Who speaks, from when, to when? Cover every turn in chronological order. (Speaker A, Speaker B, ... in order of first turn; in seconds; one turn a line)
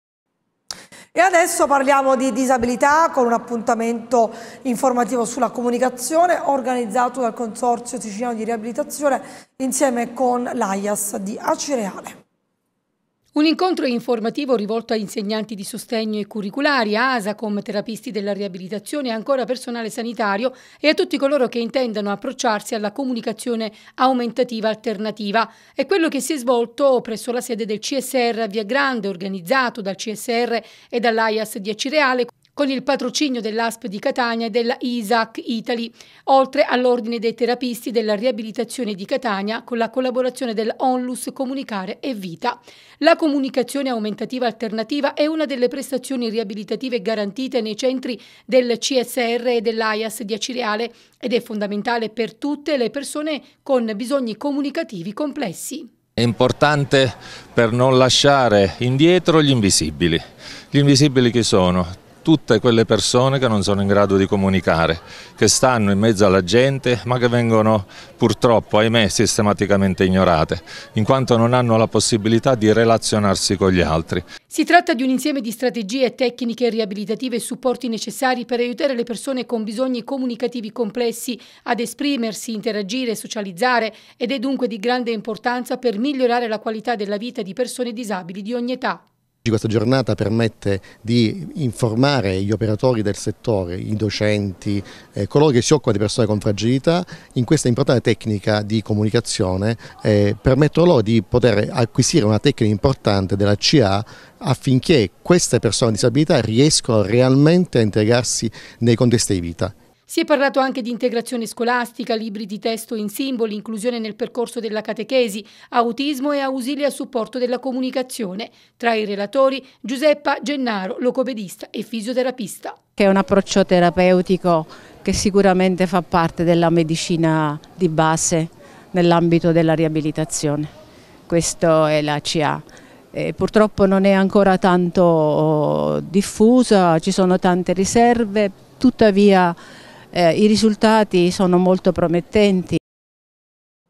Speaker A: 1.1-12.2
Speaker B: 13.3-55.9
Speaker C: 56.1-74.2
Speaker B: 74.5-89.0
Speaker D: 89.4-109.7
Speaker B: 110.1-122.8
Speaker E: 123.0-130.7
Speaker E: 131.3-139.6
Speaker E: 140.1-142.8